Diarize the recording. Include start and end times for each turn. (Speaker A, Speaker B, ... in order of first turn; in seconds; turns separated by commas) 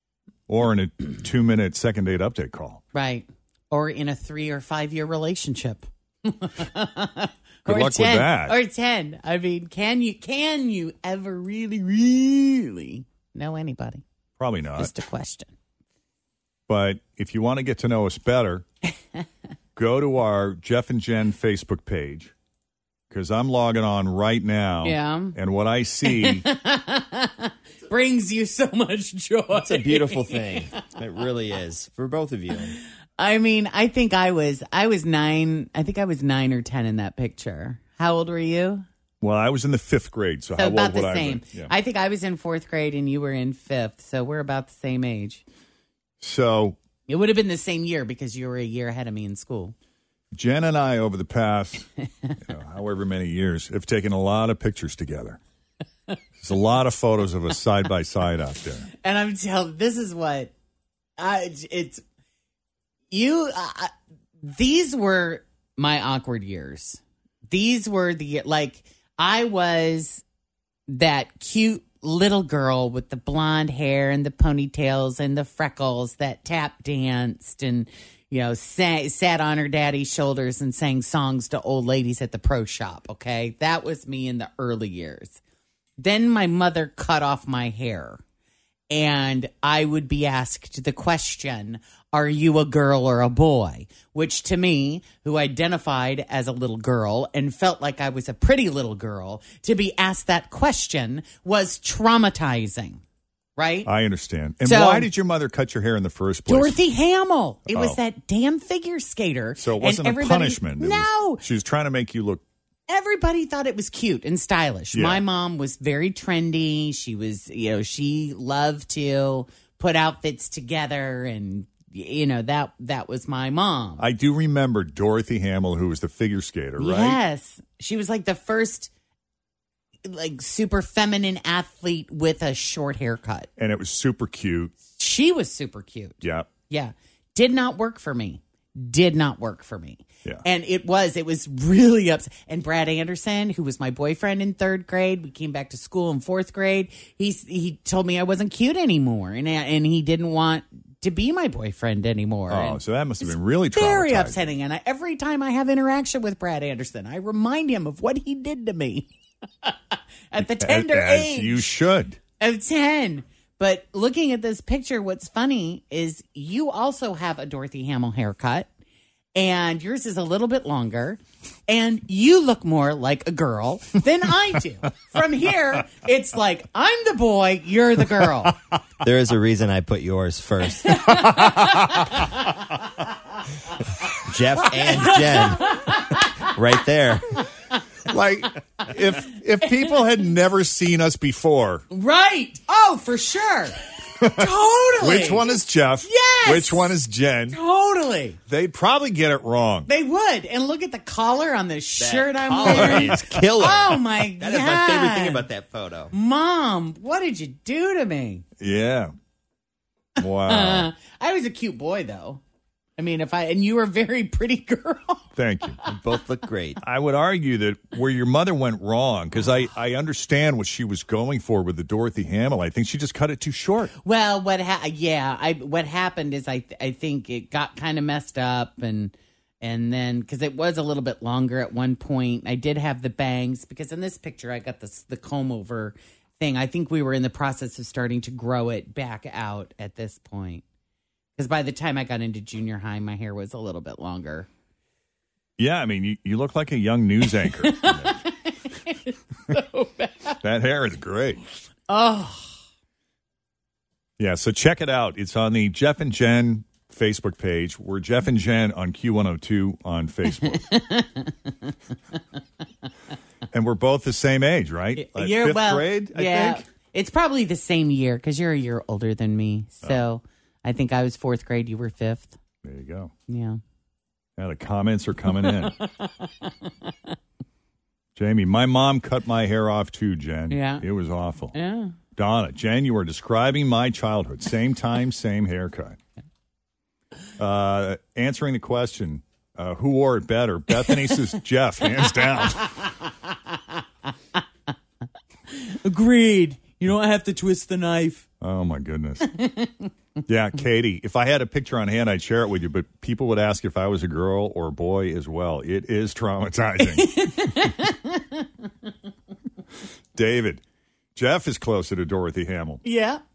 Speaker A: 0.5-2.8, Speaker B: 2.9-14.0, Speaker A: 7.6-8.6, Speaker A: 14.4-14.9, Speaker B: 14.8-15.5, Speaker A: 16.7-18.6, Speaker A: 19.8-22.3, Speaker A: 23.1-26.4, Speaker B: 24.8-25.4, Speaker B: 26.1-30.5, Speaker C: 29.5-32.8, Speaker B: 33.2-38.9, Speaker A: 39.2-41.7, Speaker B: 40.6-45.4, Speaker A: 46.2-46.8, Speaker B: 47.1-49.7, Speaker A: 50.3-51.9, Speaker A: 52.4-55.4, Speaker A: 56.4-58.9, Speaker B: 59.0-60.5, Speaker B: 61.2-62.0, Speaker B: 63.1-63.9, Speaker B: 64.4-70.2, Speaker B: 70.9-85.4, Speaker B: 86.0-88.2, Speaker B: 88.9-103.0, Speaker B: 103.6-103.9, Speaker A: 103.9-106.8, Speaker B: 104.6-105.1, Speaker B: 106.5-111.4, Speaker A: 107.7-108.0, Speaker A: 109.6-112.4, Speaker B: 112.9-124.1, Speaker A: 114.9-115.2, Speaker A: 124.0-127.2, Speaker B: 126.8-128.9, Speaker B: 130.1-133.5, Speaker A: 133.6-134.7, Speaker B: 135.0-159.1, Speaker A: 136.2-136.5, Speaker A: 152.5-154.4, Speaker B: 159.6-161.7, Speaker A: 160.4-162.2, Speaker B: 162.4-168.7, Speaker B: 169.3-178.6, Speaker C: 179.0-181.2, Speaker B: 180.8-182.6, Speaker C: 184.2-185.7, Speaker B: 184.6-186.4, Speaker C: 186.4-187.3, Speaker A: 188.1-191.8, Speaker B: 191.9-193.8, Speaker A: 194.2-194.4, Speaker B: 194.3-195.4, Speaker A: 195.0-197.6, Speaker B: 196.0-196.9, Speaker B: 197.5-198.4, Speaker A: 198.5-199.9, Speaker B: 199.9-205.5, Speaker C: 202.0-206.1, Speaker A: 202.6-203.3, Speaker B: 206.1-208.4, Speaker A: 208.6-209.1, Speaker A: 210.2-210.9, Speaker B: 210.4-212.4, Speaker B: 213.0-215.3, Speaker A: 215.4-215.8, Speaker C: 215.9-216.8, Speaker A: 216.8-223.9, Speaker B: 224.0-240.6, Speaker B: 241.4-244.5, Speaker A: 245.6-248.2, Speaker B: 247.2-250.4, Speaker A: 250.4-251.4, Speaker B: 251.9-252.6, Speaker A: 254.2-260.6, Speaker B: 260.4-261.7, Speaker A: 263.5-266.6, Speaker B: 264.9-272.4, Speaker A: 272.6-273.1, Speaker B: 273.3-273.6, Speaker A: 274.4-275.7, Speaker B: 275.3-276.9, Speaker A: 278.1-281.6, Speaker B: 280.5-280.8, Speaker B: 281.5-281.9, Speaker A: 282.1-286.0, Speaker A: 287.4-292.8, Speaker B: 290.7-291.2, Speaker B: 292.0-293.1, Speaker B: 295.5-298.2, Speaker A: 298.4-299.3, Speaker B: 299.2-299.9, Speaker A: 300.3-307.1, Speaker B: 306.8-308.5, Speaker A: 310.1-310.6, Speaker A: 311.1-312.8, Speaker B: 312.8-313.2